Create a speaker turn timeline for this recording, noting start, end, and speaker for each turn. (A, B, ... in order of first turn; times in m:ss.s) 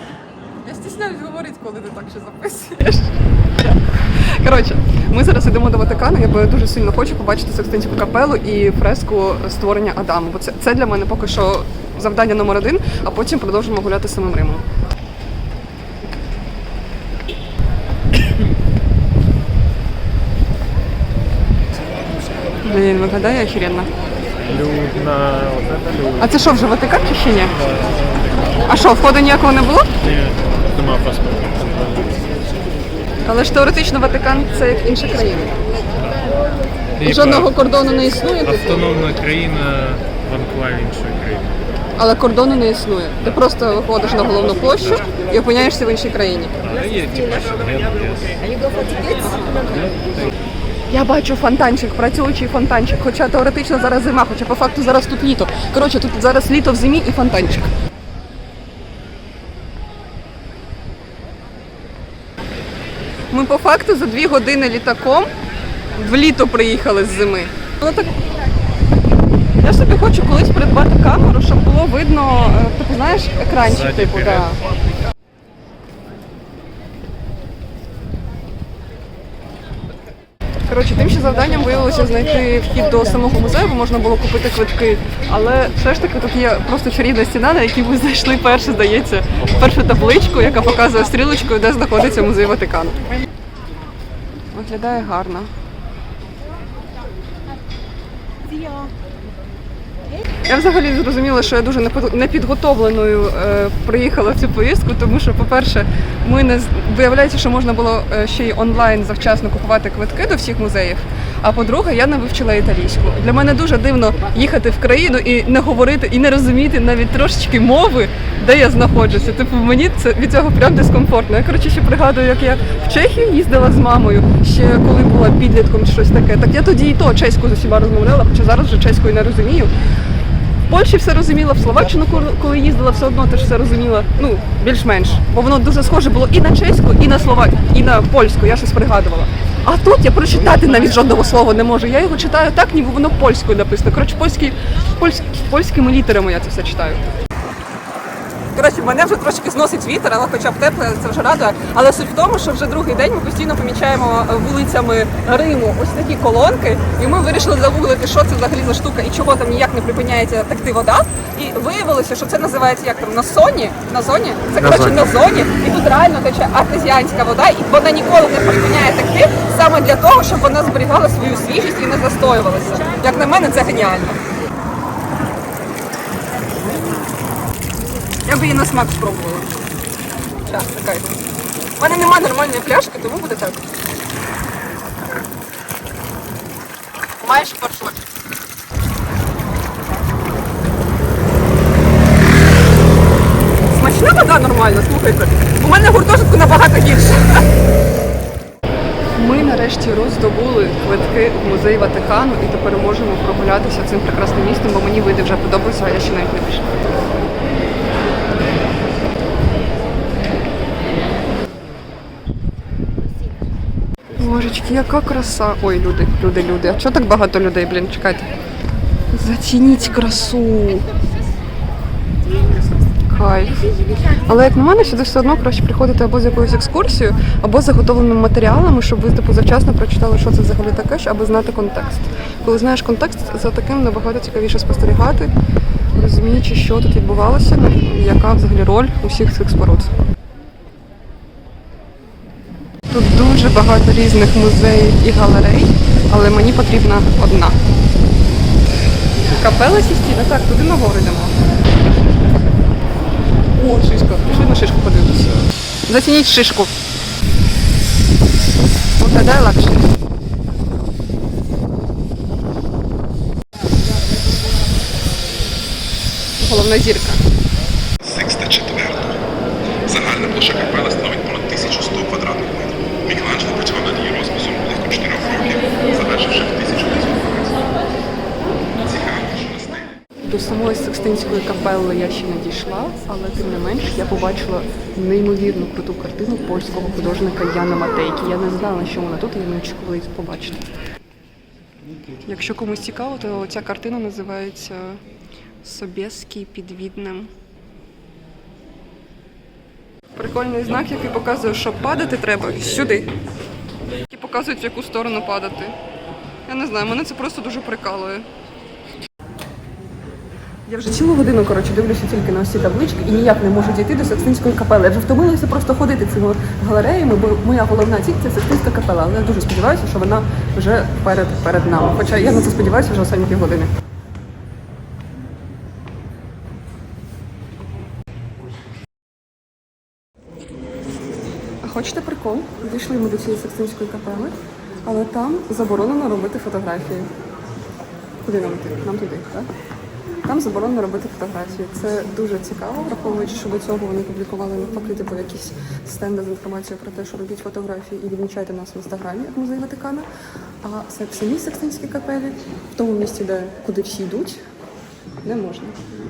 0:00.6-0:14.6 A
0:22.6-0:23.9 A
0:24.3-0:26.4 B
0:26.2-0:27.5 A
0:27.5-0:28.8 B
0:28.7-0:29.9 A
0:30.0-0:32.2 B
0:33.2-0:35.6 A
0:35.9-0:36.2 B
0:37.0-0:37.5 B
0:37.0-0:38.8 A
0:38.4-0:41.6 B
0:42.0-0:46.6 A
0:46.6-0:48.4 B
0:49.0-0:49.8 A
0:49.8-0:50.3 B
0:50.9-0:57.7 A
1:03.3-1:05.3 A
1:06.0-1:08.2 A
1:09.6-1:14.6 A
1:13.6-1:14.5 B
1:20.6-1:33.0 A
1:34.5-1:35.5 A
1:40.5-2:09.7 A
2:10.7-2:27.0 A
2:28.5-2:54.2 A
2:44.6-2:45.1 B
2:58.2-2:59.5 A
3:00.4-3:01.2 A
3:01.7-3:03.6 A
3:07.2-3:08.0 A
3:13.7-3:17.4 A
3:19.1-3:26.8 A
3:34.2-3:38.3 A
3:39.1-3:40.9 A
3:43.1-3:43.6 A
3:44.2-3:55.3 A
3:55.9-3:59.9 A
4:02.9-4:07.6 A
4:09.3-4:11.4 A
4:13.5-4:16.7 A
4:19.0-4:19.9 A
4:26.4-4:27.2 A
4:28.0-4:29.2 C
4:29.8-4:37.6 C
4:38.8-4:39.8 C
4:40.2-4:50.7 A
4:52.2-4:55.0 A
4:55.6-4:57.3 A
5:00.2-5:03.1 A
5:04.1-5:05.7 A
5:06.5-5:08.2 A
5:10.7-5:23.7 A
5:31.6-5:37.1 A
5:38.2-5:39.5 A
5:40.2-5:50.0 A
5:50.6-5:54.4 A
5:55.2-5:55.8 A